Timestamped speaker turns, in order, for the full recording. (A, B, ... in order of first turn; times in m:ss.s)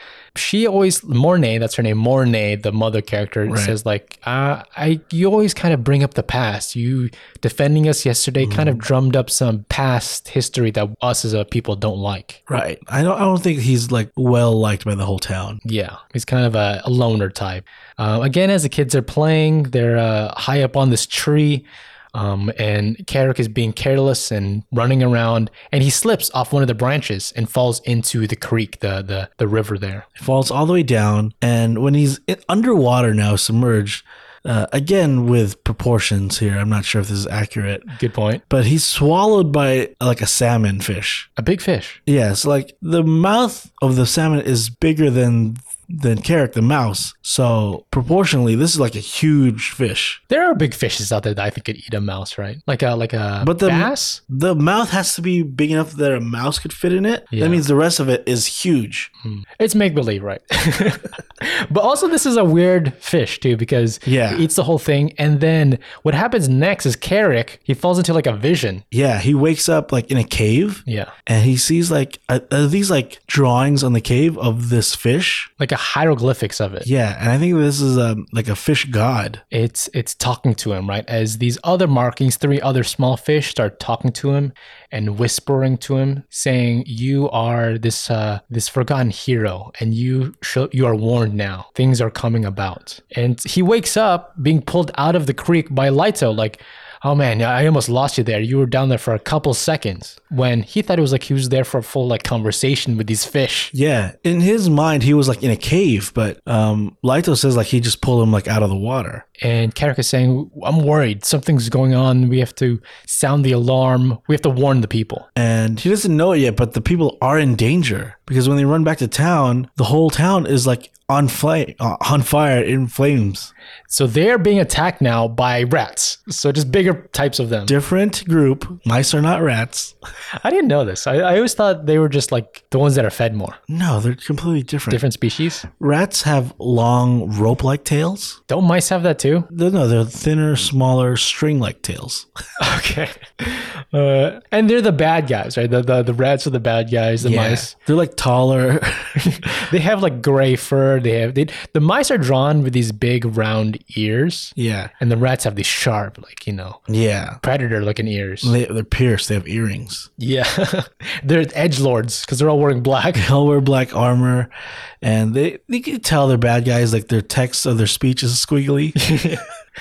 0:00.4-0:12.4 A
0:03.5-0:03.7 B
0:08.4-0:08.8 B
0:12.5-0:15.6 B
0:15.6-0:30.1 A
0:30.2-0:37.9 B
0:37.9-0:38.4 A
0:38.5-0:41.3 B
0:41.4-0:42.0 A
0:42.0-0:50.2 B
0:50.3-0:54.2 A
0:53.4-0:59.1 B
0:57.3-0:57.6 A
0:59.2-1:08.8 A
1:04.0-1:04.4 B
1:08.9-1:15.5 B
1:10.9-1:11.1 A
1:15.6-1:16.9 A
1:16.8-1:19.4 B
1:19.5-1:43.7 A
1:43.7-1:49.2 B
1:49.4-1:55.3 A
1:55.4-2:03.5 B
2:03.9-2:07.7 A
2:07.7-2:09.9 B
2:10.4-2:13.6 A
2:13.7-2:15.0 B
2:14.9-2:15.7 A
2:15.7-2:18.4 B
2:18.5-2:19.5 A
2:19.5-2:22.3 B
2:22.6-2:27.7 A
2:27.2-2:29.4 B
2:29.2-2:36.8 A
2:34.6-2:34.9 B
2:36.9-2:37.4 B
2:37.4-2:38.5 A
2:38.4-2:40.1 B
2:40.2-2:43.3 A
2:43.1-2:44.5 B
2:45.0-2:49.0 B
2:49.0-2:49.5 A